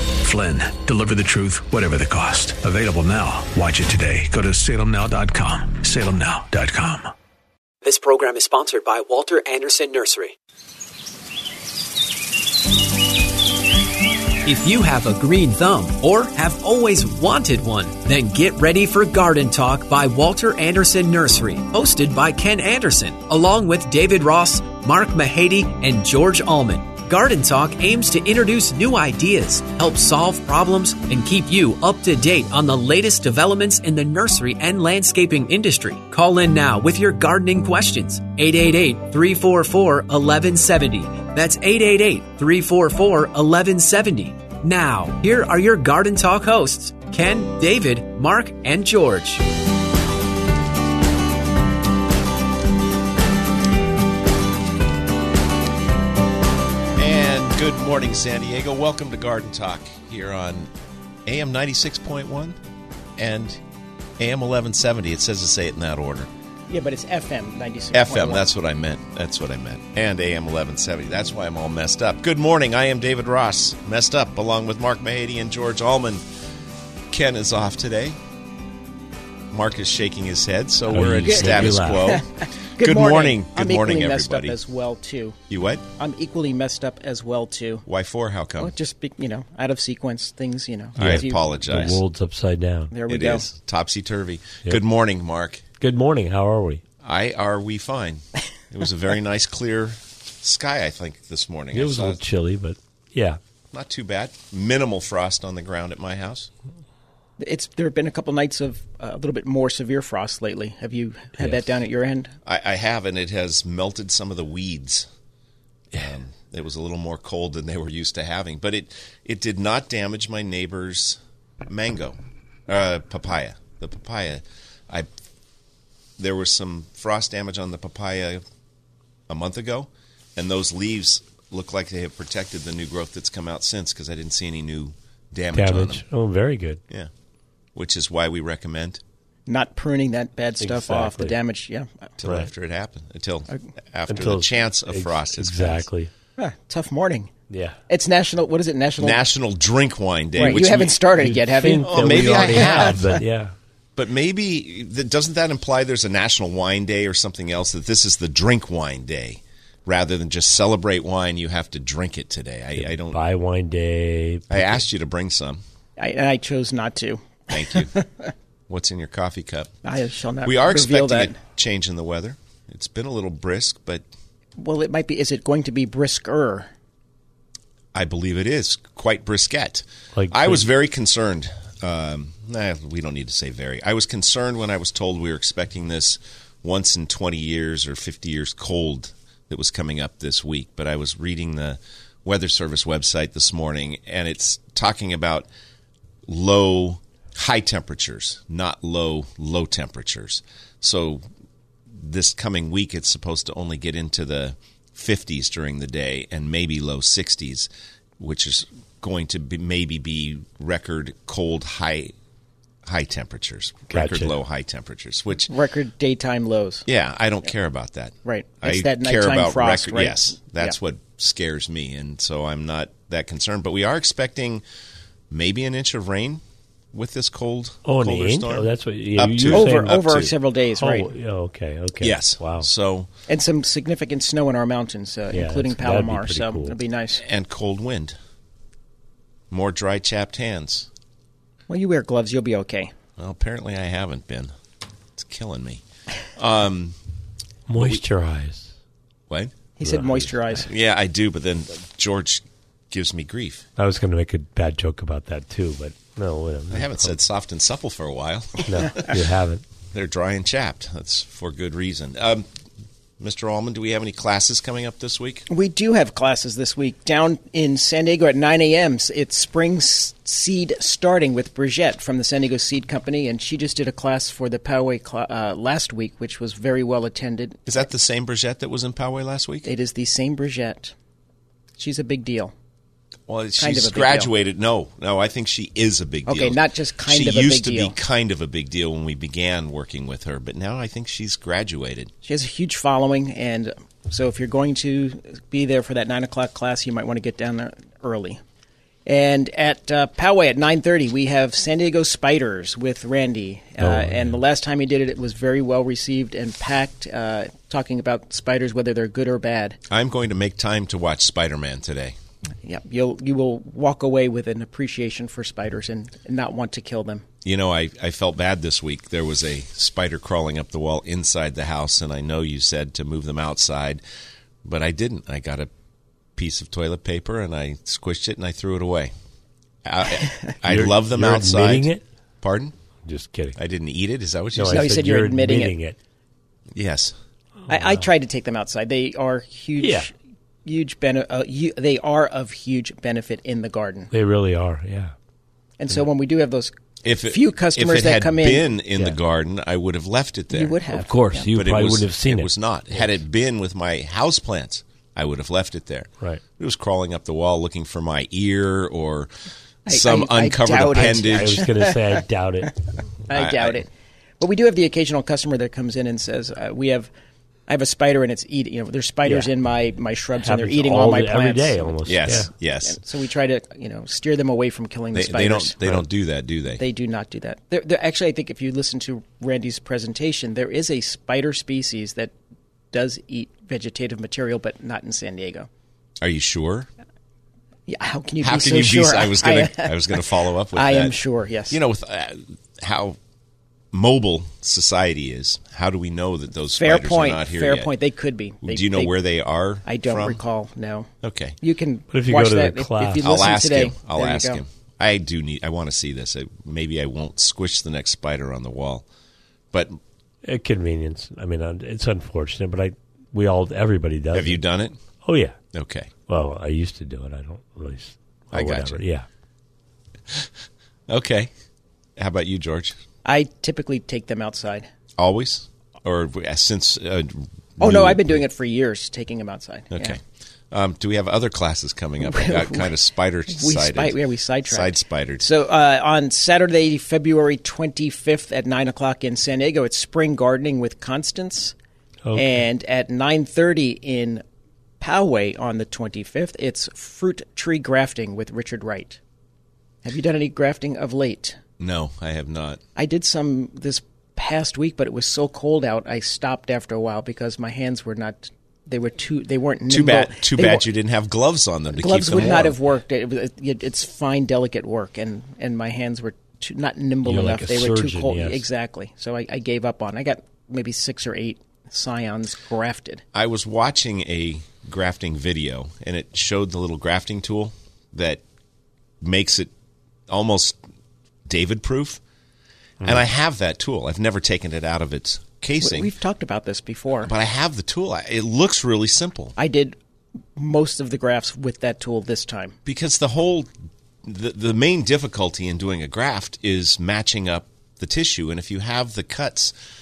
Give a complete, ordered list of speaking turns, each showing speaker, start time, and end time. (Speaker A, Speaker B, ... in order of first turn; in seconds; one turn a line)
Speaker A: 0.2-7.1
Speaker B: 7.8-10.3
Speaker B: 14.4-49.4
Speaker C: 57.0-60.7
Speaker C: 61.3-62.6
Speaker C: 63.2-63.6
Speaker C: 64.2-66.3
Speaker D: 66.7-68.5
Speaker C: 67.9-76.2
Speaker C: 77.1-78.2
Speaker C: 79.5-82.3
Speaker E: 80.9-82.2
Speaker D: 81.3-85.4
Speaker C: 82.8-84.6
Speaker C: 85.5-85.8
Speaker D: 86.0-87.8
Speaker C: 87.9-88.7
Speaker D: 88.6-91.5
Speaker C: 91.0-92.0
Speaker E: 91.0-92.9
Speaker D: 92.9-93.5
Speaker C: 93.1-95.7
Speaker E: 95.8-96.8
Speaker C: 97.0-102.2
Speaker E: 101.7-103.4
Speaker C: 103.7-106.5
Speaker D: 107.4-112.3
Speaker E: 111.4-111.6
Speaker C: 112.5-115.1
Speaker C: 116.0-125.1
Speaker C: 126.2-128.4
Speaker C: 129.3-136.0
Speaker E: 135.5-136.8
Speaker C: 137.8-139.0
Speaker D: 139.5-142.1
Speaker E: 140.6-141.4
Speaker C: 142.2-145.9
Speaker E: 142.2-142.5
Speaker E: 144.1-146.1
Speaker D: 146.4-147.3
Speaker E: 147.5-147.8
Speaker D: 147.9-149.2
Speaker C: 149.0-151.0
Speaker D: 150.4-153.0
Speaker E: 150.4-153.5
Speaker C: 151.8-153.1
Speaker C: 154.0-163.2
Speaker E: 162.8-164.8
Speaker C: 164.5-165.6
Speaker D: 166.0-168.3
Speaker C: 167.5-167.9
Speaker C: 168.7-169.7
Speaker D: 169.8-171.4
Speaker C: 170.4-174.0
Speaker D: 174.6-176.7
Speaker C: 177.9-195.5
Speaker E: 180.2-180.6
Speaker C: 196.3-201.2
Speaker C: 202.0-212.1
Speaker C: 212.8-215.5
Speaker E: 213.9-214.3
Speaker D: 215.5-216.9
Speaker C: 216.9-224.6
Speaker D: 218.2-220.8
Speaker C: 225.3-226.4
Speaker C: 226.9-230.3
Speaker E: 227.8-229.9
Speaker D: 229.5-231.1
Speaker E: 230.8-232.7
Speaker C: 232.0-233.1
Speaker D: 233.3-237.2
Speaker E: 235.3-236.8
Speaker C: 237.2-238.2
Speaker C: 239.5-240.9
Speaker D: 241.7-242.9
Speaker C: 243.2-244.5
Speaker C: 245.2-245.8
Speaker C: 246.4-247.0
Speaker E: 247.7-248.7
Speaker C: 249.3-249.6
Speaker D: 249.8-250.7
Speaker E: 249.8-250.4
Speaker C: 250.7-253.7
Speaker E: 253.8-257.2
Speaker C: 256.7-259.1
Speaker E: 258.6-259.6
Speaker C: 259.9-262.5
Speaker C: 263.2-265.5
Speaker D: 265.5-277.7
Speaker C: 277.7-279.7
Speaker D: 279.6-280.9
Speaker D: 281.8-282.5
Speaker C: 283.3-292.1
Speaker D: 283.6-284.3
Speaker D: 286.3-288.0
Speaker D: 292.2-298.4
Speaker D: 299.1-309.8
Speaker E: 303.8-304.4
Speaker C: 309.9-312.2
Speaker D: 312.6-317.3
Speaker C: 317.4-324.0
Speaker C: 324.6-325.7
Speaker C: 326.4-329.1
Speaker C: 329.9-331.9
Speaker E: 330.6-332.0
Speaker C: 332.4-332.7
Speaker E: 333.1-333.6
Speaker C: 333.6-334.9
Speaker E: 334.6-336.0
Speaker D: 334.7-335.8
Speaker C: 336.7-337.1
Speaker E: 337.7-338.1
Speaker D: 337.7-340.1
Speaker E: 339.8-340.1
Speaker D: 340.6-344.1
Speaker E: 344.1-345.1
Speaker D: 345.8-346.7
Speaker C: 347.0-350.8
Speaker D: 347.2-348.8
Speaker D: 350.5-351.5
Speaker E: 350.9-353.1
Speaker C: 351.5-359.3
Speaker D: 359.9-362.0
Speaker C: 359.9-361.6
Speaker E: 361.0-362.8
Speaker D: 363.3-363.9
Speaker C: 363.3-363.9
Speaker D: 364.4-367.1
Speaker D: 367.7-372.0
Speaker E: 369.2-369.5
Speaker E: 370.4-372.5
Speaker C: 372.1-373.0
Speaker D: 372.8-376.0
Speaker C: 375.1-376.8
Speaker D: 376.8-382.3
Speaker D: 382.9-385.7
Speaker C: 386.2-386.9
Speaker D: 387.9-391.8
Speaker C: 388.4-391.2
Speaker C: 391.7-393.2
Speaker C: 393.9-397.9
Speaker D: 396.8-399.1
Speaker C: 398.6-400.4
Speaker D: 399.9-401.1
Speaker C: 401.2-401.6
Speaker D: 401.6-404.6
Speaker E: 402.1-403.3
Speaker C: 403.2-409.1
Speaker C: 409.7-410.0
Speaker E: 410.4-414.6
Speaker C: 414.3-414.9
Speaker E: 415.2-415.6
Speaker C: 415.7-416.1
Speaker E: 416.3-419.2
Speaker C: 418.5-419.0
Speaker C: 421.1-421.5
Speaker C: 422.2-422.9
Speaker D: 423.2-424.9
Speaker C: 425.2-428.4
Speaker D: 427.8-430.2
Speaker C: 429.9-430.2
Speaker C: 430.7-435.5
Speaker D: 432.2-432.9
Speaker D: 433.5-441.8
Speaker E: 442.2-442.7
Speaker D: 442.3-444.4
Speaker D: 445.0-449.2
Speaker D: 450.0-451.6
Speaker C: 451.8-452.8
Speaker D: 453.0-460.9
Speaker C: 459.9-462.7
Speaker D: 462.0-473.2
Speaker E: 467.2-468.6
Speaker C: 473.3-478.4
Speaker C: 479.2-479.7
Speaker C: 480.3-480.8
Speaker C: 481.5-482.2
Speaker C: 483.0-486.1
Speaker D: 485.8-487.3
Speaker C: 487.2-489.6
Speaker D: 489.6-490.0
Speaker D: 490.6-492.8
Speaker C: 492.9-493.7
Speaker C: 494.2-499.8